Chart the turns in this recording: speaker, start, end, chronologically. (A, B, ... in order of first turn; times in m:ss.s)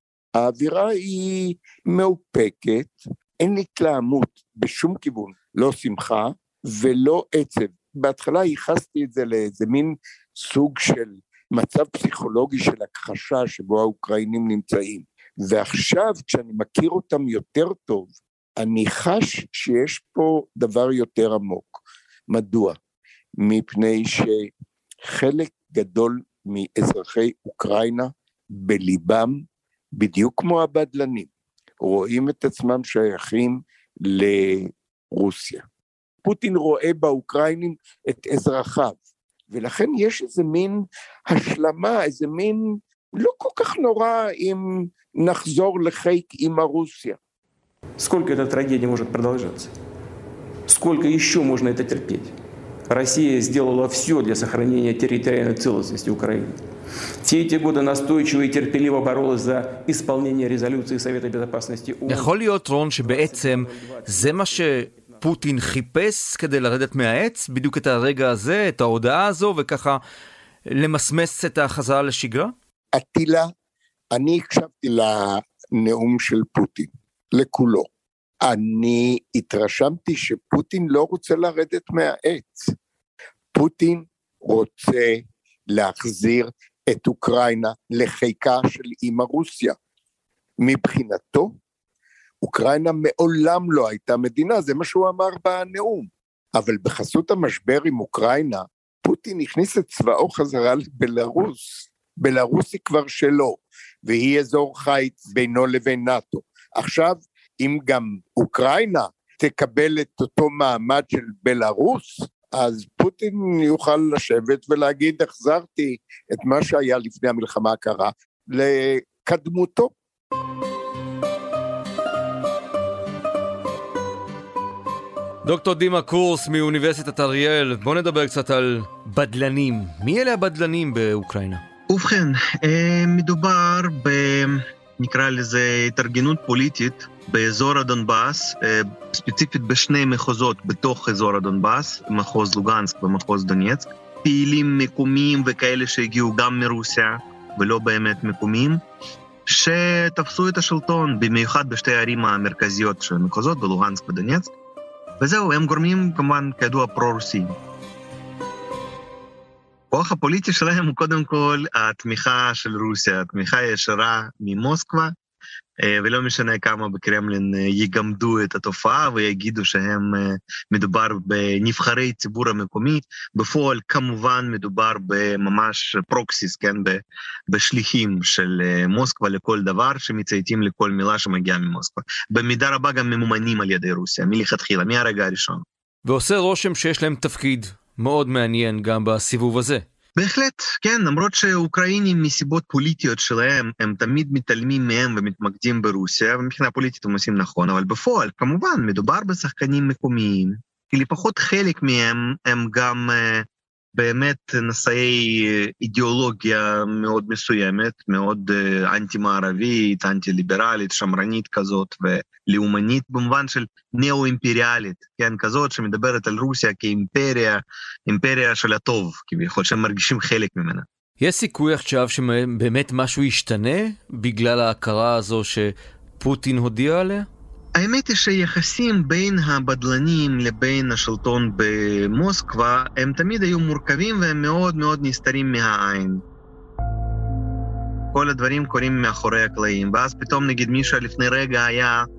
0:00.3-0:22.8 A
0:23.4-0:24.5 A
0:25.1-0:31.3 A
0:31.8-0:35.6 A
0:36.2-0:39.0 A
0:39.5-0:47.2 A
0:48.0-0:49.7 B
0:50.7-0:52.3 B
0:52.9-0:56.5 B
0:57.2-1:02.3 B
1:02.1-1:10.0 C
1:03.0-1:05.1 B
1:10.7-1:12.5 C
1:12.9-1:13.5 A
1:14.1-1:17.9 A
1:18.4-1:22.7 A
1:23.5-1:29.8 A
1:30.6-1:31.5 A
1:32.4-1:59.9 A
2:05.4-2:11.6 C
2:11.9-2:28.8 D
2:29.5-2:34.5 D
2:35.2-2:37.5 D
2:39.9-2:45.1 D
2:45.8-3:05.6 D
3:06.0-3:09.8 C
3:10.2-3:40.8 D
3:41.2-3:47.3 C
3:47.8-3:56.2 D
3:58.1-4:02.0 D